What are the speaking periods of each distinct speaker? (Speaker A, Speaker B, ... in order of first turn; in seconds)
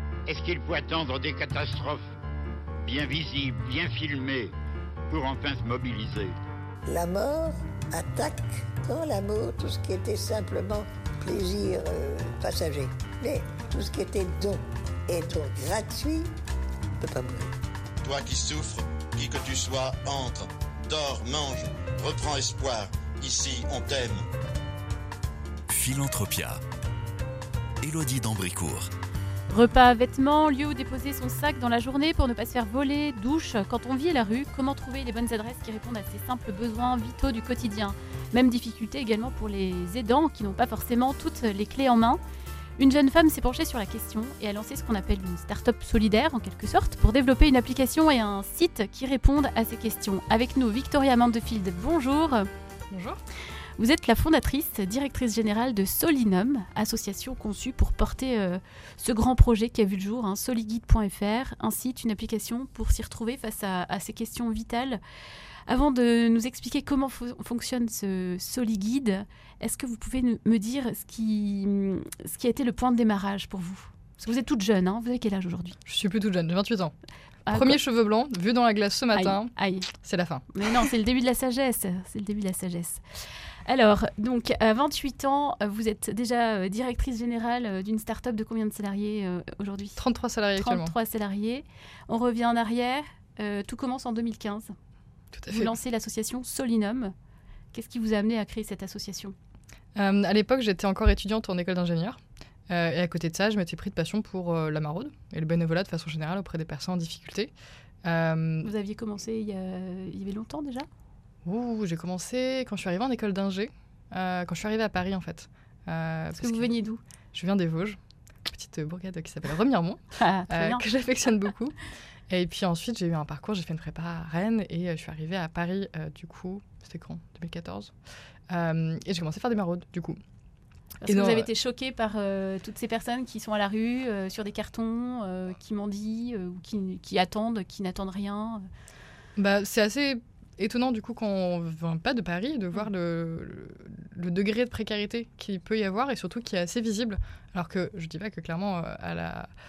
Speaker A: 0.3-2.1, 2.8-4.5, 5.1-6.3
Speaker B: 6.9-16.3, 17.0-17.5
Speaker C: 18.0-24.2
Speaker D: 25.7-26.6, 27.8-28.9
Speaker E: 29.5-42.2, 42.8-52.5, 53.8-65.0, 65.7-75.8, 77.5-77.8, 79.1-79.9, 80.5-90.0, 90.6-94.7, 95.5-97.1, 97.7-99.3, 108.6-110.9, 116.4-117.0, 120.2-120.8, 131.0-138.7
Speaker F: 52.9-53.2, 75.8-76.9, 77.5-80.5, 90.0-90.9, 95.3-95.7, 100.0-107.5, 108.0-108.7, 111.4-116.7, 117.3-121.7, 122.3-127.9, 128.5-130.2, 131.0-131.5, 139.3-149.5